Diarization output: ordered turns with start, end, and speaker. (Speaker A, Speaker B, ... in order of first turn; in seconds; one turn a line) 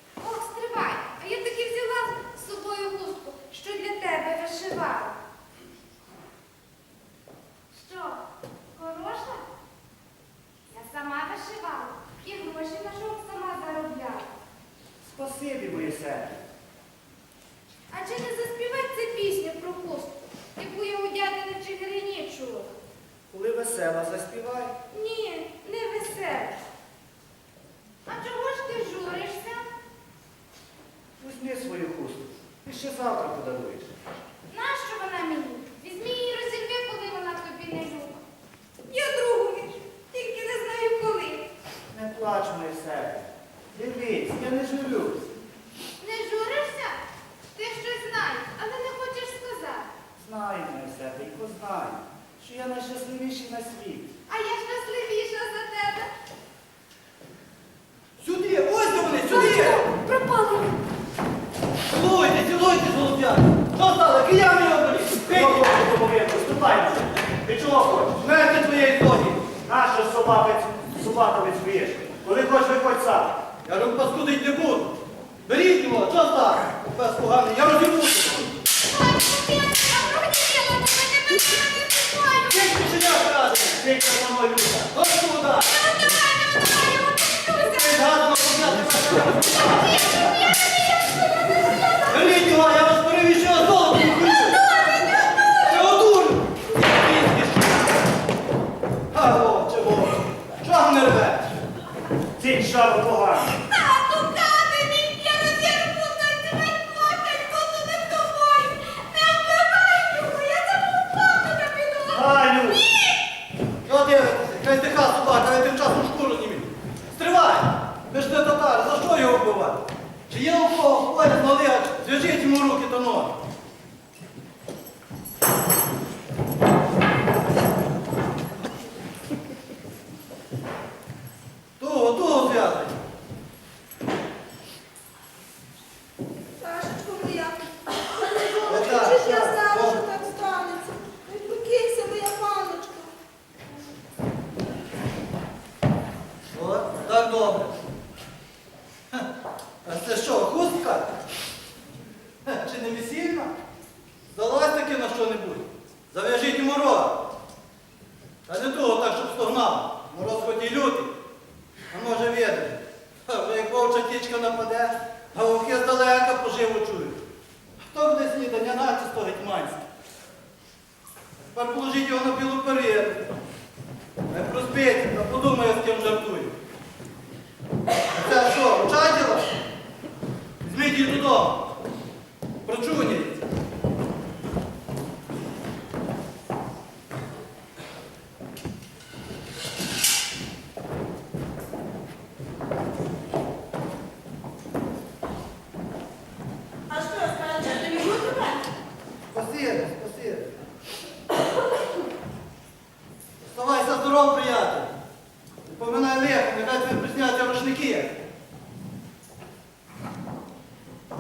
Speaker A: 0.2-5.2
Speaker A: 7.7-9.4
Speaker A: 10.7-14.3
Speaker B: 15.0-16.4
Speaker A: 17.9-22.8
Speaker B: 23.3-24.8
Speaker A: 24.9-26.6
Speaker A: 28.1-29.6
Speaker B: 31.2-34.0
Speaker A: 34.5-38.2
Speaker A: 38.9-41.5
Speaker B: 41.9-45.3
Speaker A: 46.0-47.0
Speaker A: 47.5-49.9
Speaker B: 50.2-54.1
Speaker A: 54.3-56.1
Speaker C: 58.2-59.9
Speaker A: 58.8-60.8
Speaker C: 61.9-65.7
Speaker B: 65.3-68.2
Speaker C: 68.2-69.5
Speaker B: 69.6-73.4
Speaker C: 73.7-78.5
Speaker A: 78.8-82.8
Speaker C: 82.5-83.8
Speaker B: 83.7-84.9
Speaker C: 84.9-85.7
Speaker A: 85.8-87.8
Speaker C: 87.6-89.9
Speaker A: 89.5-92.1
Speaker C: 92.1-94.6
Speaker A: 94.2-95.4
Speaker C: 95.6-98.0
Speaker C: 99.1-101.5
Speaker B: 102.4-103.6
Speaker A: 103.5-113.2
Speaker B: 112.1-112.9
Speaker C: 113.8-123.3
Speaker C: 131.8-133.0
Speaker D: 136.6-143.1
Speaker C: 138.7-140.0
Speaker C: 146.5-147.7
Speaker C: 149.8-151.1
Speaker C: 152.4-153.5
Speaker C: 154.3-157.2
Speaker C: 158.5-161.1
Speaker C: 161.9-167.2
Speaker C: 167.8-169.8
Speaker C: 171.4-173.2
Speaker C: 174.3-176.6
Speaker C: 178.1-179.5
Speaker C: 180.6-181.6
Speaker C: 182.7-183.4
Speaker D: 196.9-198.7
Speaker C: 199.3-200.5
Speaker C: 203.4-204.9
Speaker C: 205.7-208.1